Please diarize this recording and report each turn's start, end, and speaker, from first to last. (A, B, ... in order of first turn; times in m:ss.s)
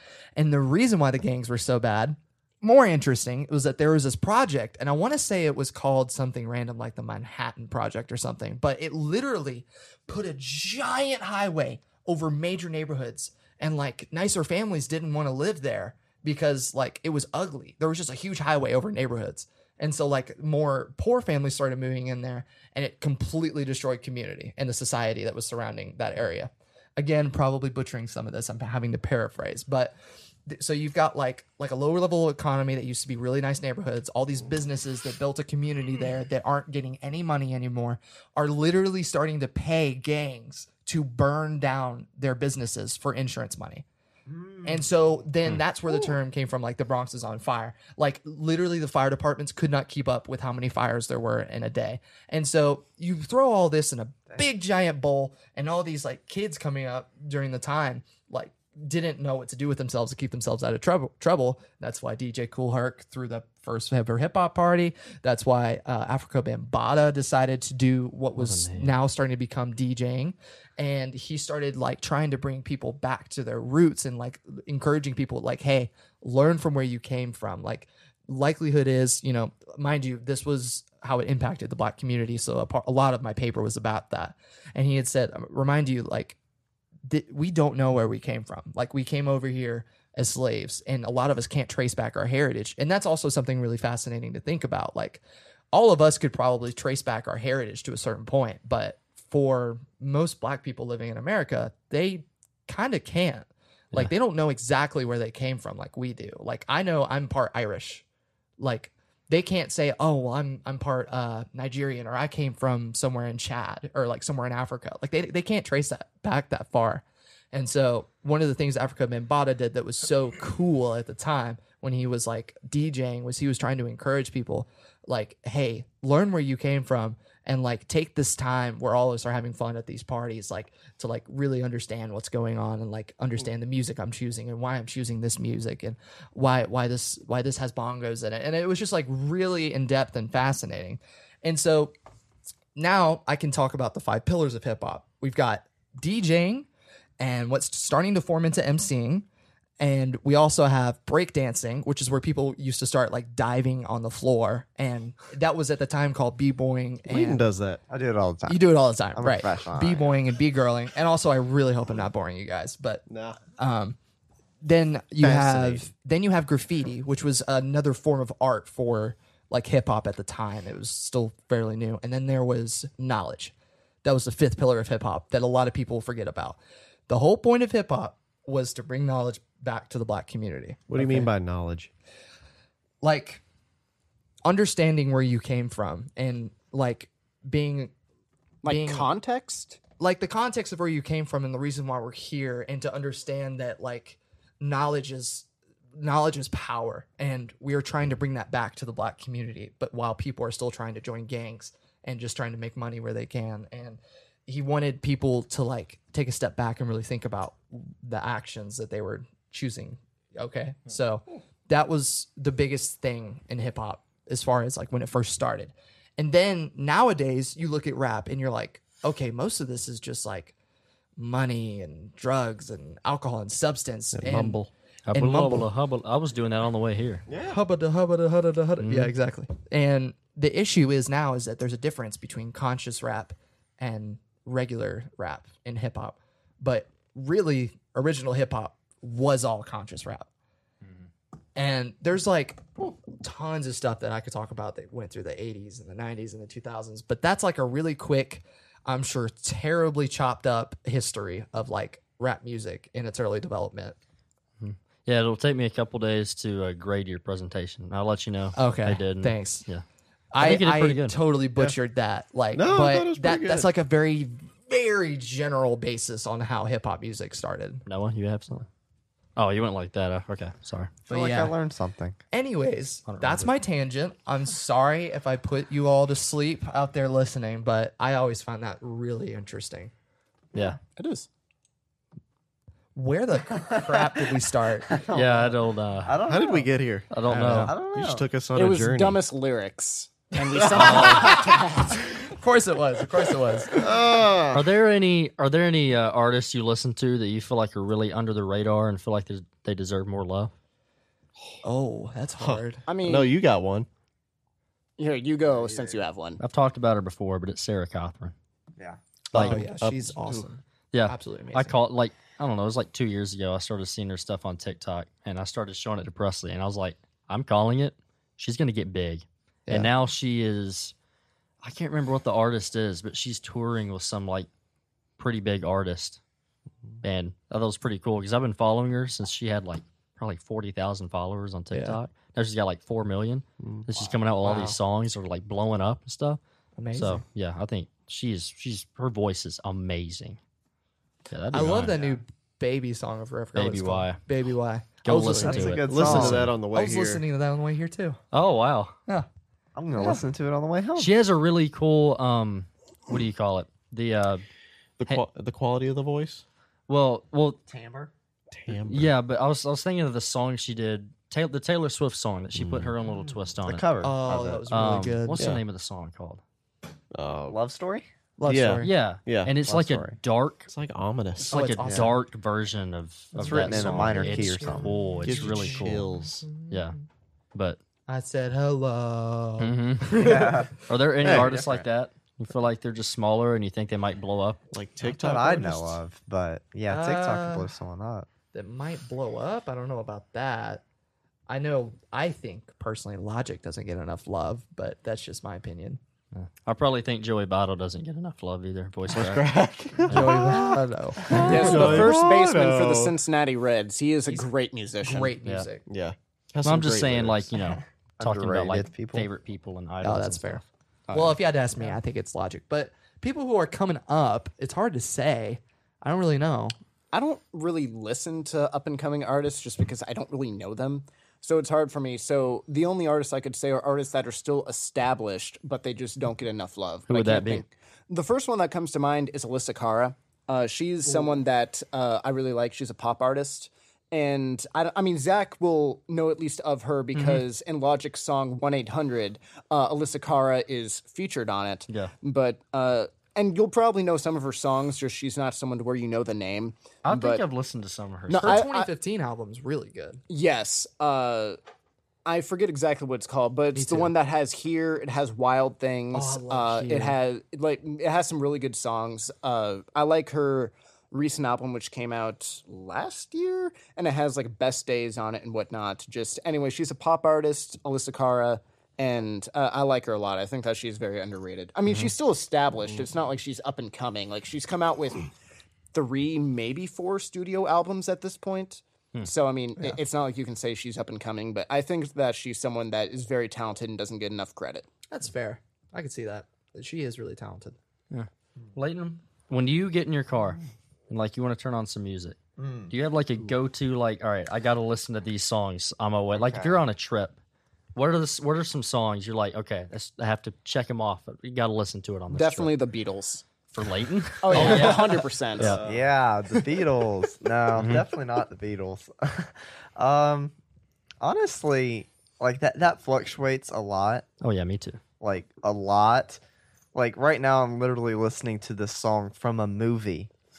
0:00.4-0:29.9 A
0:30.5-0:43.8 A
0:44.3-0:45.1 B
0:44.6-1:26.4 A
1:08.4-1:08.9 C
1:27.1-1:35.2 A
1:35.7-1:48.0 A
1:48.6-2:21.9 A
2:22.8-2:26.7 A
2:27.2-2:29.3 A
2:29.8-2:37.5 A
2:37.1-2:37.8 D
2:37.9-2:40.1 B
2:38.5-2:43.0 A
2:43.1-2:43.4 D
2:43.6-2:44.0 A
2:44.6-3:01.3 A
2:45.2-2:45.8 B
3:00.9-3:01.9 D
3:03.0-3:03.4 A
3:04.4-3:07.9 A
3:08.6-3:09.8 E
3:08.6-3:09.1 A
3:10.0-3:40.5 A
3:41.2-3:44.6 A
3:44.1-3:44.6 D
3:45.1-3:47.2 C
3:45.1-3:45.7 A
3:47.3-3:47.6 D
3:47.5-4:00.3 A
3:48.8-3:49.1 C
4:01.6-4:14.0 A
4:14.6-4:19.8 C
4:18.6-4:19.6 A
4:20.3-4:27.8 A
4:20.4-4:21.2 C
4:22.5-4:23.7 D
4:27.9-4:28.7 C
4:29.4-4:30.9 C
4:31.1-4:31.6 A
4:31.1-4:32.2 B
4:32.3-4:39.9 A
4:33.1-4:33.5 C
4:41.0-4:41.3 E
4:43.0-4:45.0 A
4:43.6-4:44.2 B
4:44.9-4:46.7 B
4:45.1-4:46.2 C
4:46.3-4:47.2 D
4:47.1-4:47.7 C
4:47.2-4:47.8 A
4:47.4-4:48.2 B
4:47.9-4:49.2 D
4:48.6-4:52.0 E
4:50.7-4:54.0 A
4:50.8-4:51.3 C
4:53.7-4:54.7 D
4:54.5-5:00.5 C
5:01.6-5:02.8 A
5:02.4-5:03.9 D
5:02.9-5:03.3 E
5:05.0-5:06.4 E
5:05.5-5:06.0 B
5:06.4-5:08.3 C
5:09.3-5:11.8 A
5:09.3-5:09.6 C
5:09.3-5:10.5 D
5:10.9-5:20.9 C
5:21.6-5:24.5 C
5:25.2-5:26.2 C
5:27.0-5:36.4 C
5:31.7-5:32.0 A
5:33.6-5:33.9 D
5:34.4-5:34.8 A
5:36.8-5:37.2 A
5:36.9-5:40.4 C
5:41.3-5:42.0 C
5:41.5-5:48.2 A
5:43.6-5:44.2 C
5:45.0-5:46.5 C
5:45.3-5:46.4 B
5:45.8-5:47.2 D
5:48.3-5:48.9 C
5:49.8-5:51.1 B
5:50.0-5:50.2 A
5:51.0-5:54.4 C
5:55.0-5:56.4 D
5:56.9-5:57.6 C
5:57.7-5:58.1 B
5:58.5-5:59.1 D
5:58.7-6:03.9 C
6:02.6-6:02.9 D
6:03.2-6:04.7 B
6:04.0-6:05.6 A
6:04.7-6:06.4 C
6:05.4-6:05.6 D
6:07.1-6:07.6 D
6:07.5-6:08.1 B
6:08.4-6:08.9 A
6:08.5-6:09.6 D
6:08.8-6:10.7 C
6:09.6-6:10.2 B
6:10.7-6:11.6 D
6:11.5-6:12.2 A
6:11.5-6:16.2 C
6:13.3-6:15.8 A
6:13.4-6:14.9 B
6:15.2-6:16.5 D
6:16.4-6:16.8 A
6:16.7-6:17.0 C
6:17.6-6:17.8 C
6:18.1-6:20.7 A
6:19.6-6:20.3 C
6:20.2-6:20.7 B
6:20.9-6:24.6 C
6:21.2-6:21.5 D
6:21.2-6:21.8 B
6:24.7-6:26.0 D
6:25.0-6:28.3 B
6:26.9-6:27.7 A
6:28.5-6:30.8 A
6:31.5-6:36.0 A
6:36.3-6:39.5 C
6:39.1-6:43.2 D
6:40.1-6:42.1 A
6:41.3-6:45.4 E
6:45.0-6:45.8 A
6:45.9-6:47.5 D
6:46.6-6:50.6 C
6:48.2-6:49.3 B
6:50.0-6:56.8 A
6:51.1-6:51.4 E
6:57.1-7:27.4 E
7:07.1-7:07.6 C
7:11.1-7:11.4 A
7:17.2-7:17.4 C
7:27.0-7:28.6 C
7:28.3-7:28.9 E
7:28.4-7:30.2 A
7:30.3-7:31.6 E
7:32.2-7:55.3 E
7:33.8-7:34.1 A
7:36.1-7:37.2 A
7:55.9-8:04.9 E
8:05.1-8:07.8 A
8:08.1-8:12.4 C
8:12.6-8:12.9 B
8:12.9-8:17.4 C
8:16.3-8:16.8 B
8:18.0-8:22.7 C
8:22.3-8:23.4 E
8:23.7-8:25.8 C
8:24.4-8:25.8 E
8:25.6-8:26.1 D
8:25.8-8:30.5 B
8:27.8-8:28.0 C
8:31.2-8:34.3 B
8:34.4-8:35.0 C
8:35.2-8:36.4 B
8:36.9-8:40.3 B